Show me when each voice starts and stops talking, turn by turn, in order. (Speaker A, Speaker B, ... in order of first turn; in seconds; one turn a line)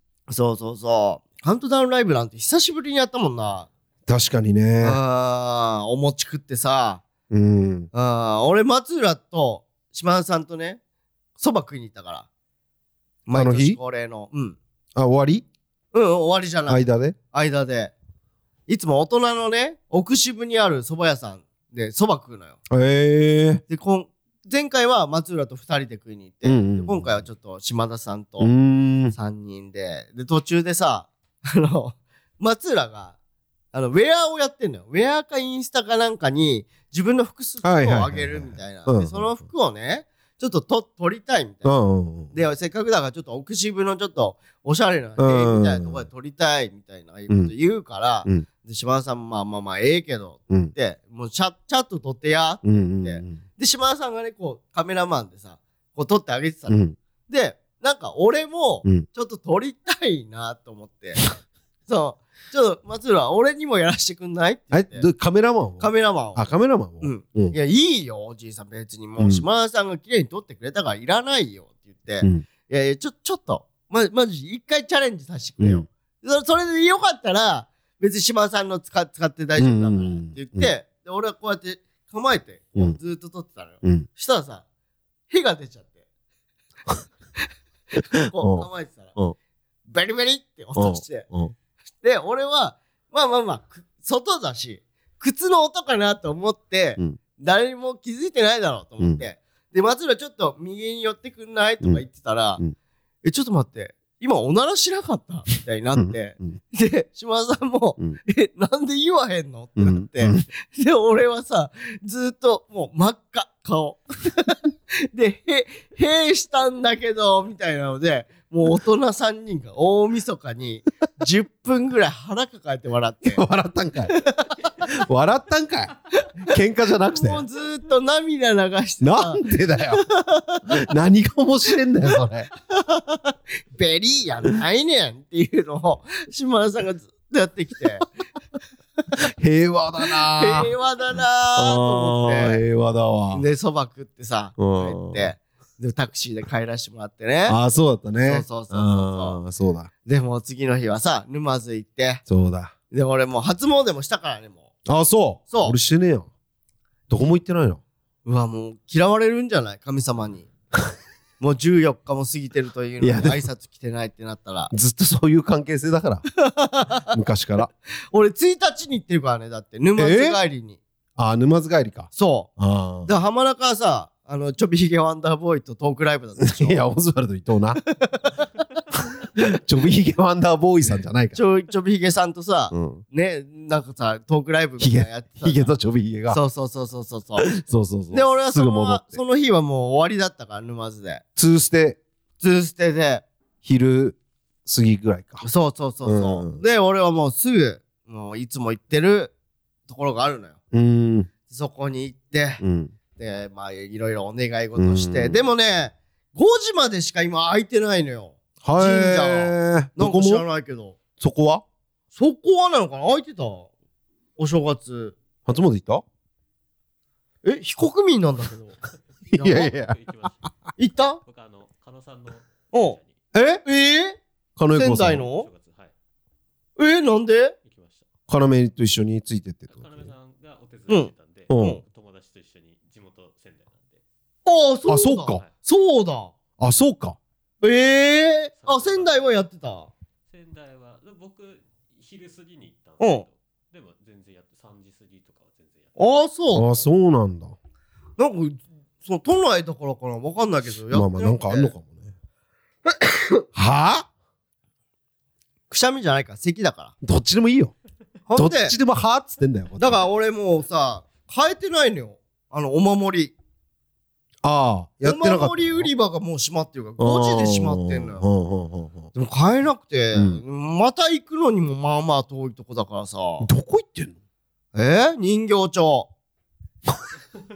Speaker A: 0.3-3.7
Speaker B: 4.1-5.0
Speaker A: 4.8-7.0
Speaker B: 7.3-7.9
Speaker A: 7.9-10.8
Speaker A: 11.4-12.3
Speaker A: 13.3-14.6
Speaker B: 13.3-13.8
Speaker B: 14.9-15.4
Speaker A: 15.9-17.9
Speaker B: 16.7-17.2
Speaker A: 18.7-22.6
Speaker B: 22.7-23.6
Speaker A: 23.7-28.5
Speaker B: 26.4-27.3
Speaker B: 28.4-29.2
Speaker A: 29.1-33.1
Speaker A: 33.7-41.7
Speaker B: 37.6-39.3
Speaker B: 41.6-42.3
Speaker A: 42.3-61.2
Speaker B: 45.2-46.0
Speaker B: 52.6-53.4
Speaker B: 56.7-57.0
Speaker A: 61.9-65.1
Speaker B: 64.7-67.5
Speaker A: 65.8-66.4
Speaker A: 67.0-84.6
Speaker B: 69.2-69.5
Speaker B: 75.6-75.8
Speaker B: 79.6-80.7
Speaker A: 85.3-86.0
Speaker A: 88.1-89.2
Speaker B: 88.4-89.3
Speaker A: 89.9-91.3
Speaker B: 90.8-91.5
Speaker A: 92.0-102.6
Speaker A: 103.2-123.4
Speaker B: 106.0-106.6
Speaker B: 109.8-110.4
Speaker B: 123.2-124.2
Speaker A: 124.1-124.7
Speaker B: 124.8-126.0
Speaker B: 126.5-127.4
Speaker A: 127.1-130.8
Speaker B: 129.0-130.0
Speaker B: 130.8-132.5
Speaker A: 132.7-138.1
Speaker B: 139.4-140.7
Speaker A: 140.1-142.6
Speaker B: 141.6-143.4
Speaker A: 143.3-147.6
Speaker B: 144.6-145.3
Speaker B: 147.5-149.9
Speaker A: 148.2-149.4
Speaker A: 150.1-152.2
Speaker B: 152.3-152.7
Speaker A: 152.9-154.7
Speaker B: 154.9-156.3
Speaker A: 155.5-155.8
Speaker B: 157.1-157.8
Speaker A: 158.2-160.5
Speaker A: 161.4-164.7
Speaker B: 163.0-163.4
Speaker B: 164.7-166.2
Speaker A: 166.4-167.1
Speaker B: 167.1-167.7
Speaker A: 168.1-170.8
Speaker B: 170.0-170.4
Speaker B: 171.2-173.1
Speaker A: 172.1-172.5
Speaker A: 173.1-176.8
Speaker B: 176.4-177.8
Speaker A: 177.9-178.4
Speaker B: 179.4-181.4
Speaker A: 181.3-185.7
Speaker B: 182.7-183.0
Speaker B: 184.8-186.4
Speaker A: 186.3-187.5
Speaker B: 187.4-189.2
Speaker A: 188.1-191.2
Speaker B: 191.4-192.0
Speaker A: 192.4-193.2
Speaker B: 193.6-195.5
Speaker A: 195.4-199.3
Speaker B: 196.0-196.6
Speaker A: 199.9-200.6
Speaker B: 200.7-201.3
Speaker A: 201.5-202.6
Speaker B: 202.6-202.9
Speaker A: 203.2-211.0
Speaker B: 204.8-205.4
Speaker B: 208.6-210.4
Speaker B: 211.2-211.6
Speaker A: 212.1-213.7
Speaker A: 214.4-215.2
Speaker B: 215.4-216.0
Speaker A: 217.4-218.7
Speaker B: 219.3-220.0
Speaker A: 219.4-219.7
Speaker C: 219.4-220.5
Speaker A: 220.8-221.2
Speaker C: 221.2-223.2
Speaker A: 222.7-223.0
Speaker B: 223.3-223.6
Speaker A: 223.7-224.2
Speaker B: 224.6-225.3
Speaker A: 224.7-225.5
Speaker C: 225.2-225.9
Speaker A: 226.8-227.6
Speaker C: 227.7-228.1
Speaker B: 228.3-230.1
Speaker C: 229.7-234.0
Speaker A: 230.9-231.8
Speaker B: 231.5-231.8
Speaker A: 234.4-236.3
Speaker B: 234.9-235.4
Speaker B: 236.6-237.2
Speaker A: 237.6-239.9
Speaker C: 238.6-239.2
Speaker C: 240.3-246.0
Speaker A: 243.0-243.2
Speaker A: 246.0-246.7
Speaker B: 246.5-247.6
Speaker A: 248.2-251.7
Speaker B: 250.9-252.1
Speaker A: 252.9-253.4
Speaker B: 253.5-254.1
Speaker A: 255.7-256.9
Speaker B: 257.0-257.7
Speaker A: 258.3-258.8
Speaker B: 258.4-260.0
Speaker A: 259.8-263.3
Speaker B: 264.4-265.9
Speaker A: 265.1-268.2
Speaker B: 267.0-269.1
Speaker A: 269.1-273.5
Speaker B: 270.1-270.4
Speaker B: 273.4-274.1
Speaker A: 274.7-276.1